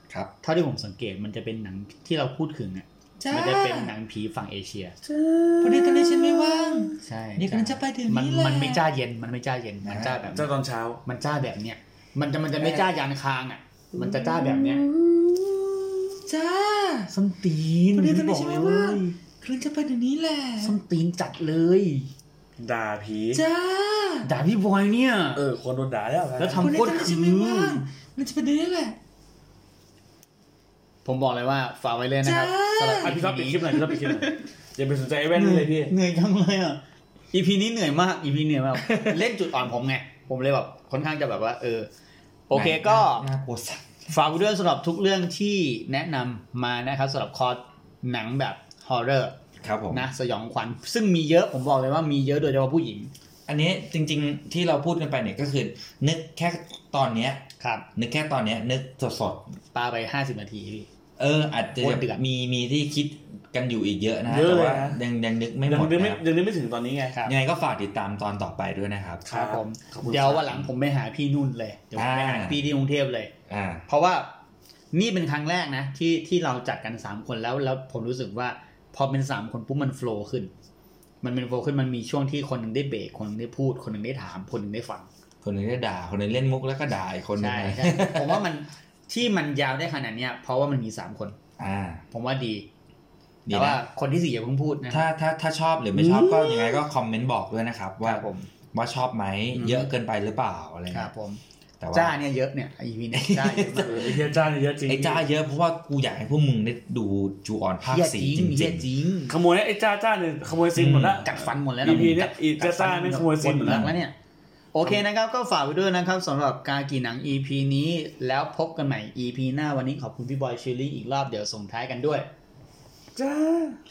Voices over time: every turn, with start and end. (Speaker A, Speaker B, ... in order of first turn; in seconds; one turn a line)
Speaker A: 0.4-5.0
Speaker B: 3.2-3.9
Speaker C: 5.0-7.0
Speaker B: 5.6-8.9
Speaker A: 7.0-10.5
Speaker B: 9.8-10.2
Speaker C: 10.3-11.0
Speaker A: 11.0-14.8
Speaker B: 12.6-12.9
Speaker B: 13.9-17.1
Speaker A: 17.1-19.2
Speaker B: 17.9-20.7
Speaker A: 20.6-22.1
Speaker C: 22.6-23.4
Speaker B: 23.3-24.3
Speaker A: 24.2-25.4
Speaker C: 25.3-26.7
Speaker A: 26.4-27.9
Speaker B: 26.5-29.0
Speaker A: 31.0-34.4
Speaker B: 32.2-33.2
Speaker C: 33.0-35.9
Speaker A: 35.3-36.8
Speaker A: 37.3-41.9
Speaker B: 38.9-39.2
Speaker A: 42.5-43.2
Speaker B: 42.5-44.0
Speaker A: 44.1-49.3
Speaker B: 49.6-50.0
Speaker A: 49.9-53.1
Speaker B: 53.5-59.5
Speaker A: 57.6-57.8
Speaker A: 59.7-60.9
Speaker B: 61.2-66.2
Speaker A: 61.8-62.2
Speaker C: 64.3-65.0
Speaker C: 65.6-67.2
Speaker B: 67.2-69.5
Speaker C: 69.3-70.6
Speaker A: 69.3-73.3
Speaker B: 71.9-72.7
Speaker B: 73.5-73.8
Speaker A: 73.9-74.3
Speaker A: 74.9-80.5
Speaker A: 81.2-85.1
Speaker B: 85.4-88.4
Speaker A: 87.4-91.4
Speaker B: 91.6-92.0
Speaker A: 92.1-92.7
Speaker B: 93.5-93.8
Speaker A: 93.5-95.1
Speaker B: 94.9-101.1
Speaker A: 95.9-96.8
Speaker A: 98.0-98.5
Speaker A: 99.5-99.9
Speaker A: 100.9-104.2
Speaker B: 101.8-102.2
Speaker B: 103.1-108.8
Speaker C: 103.8-105.2
Speaker A: 107.8-109.4
Speaker C: 109.3-113.9
Speaker B: 110.7-111.2
Speaker A: 111.2-114.1
Speaker A: 114.7-122.3
Speaker C: 123.1-123.8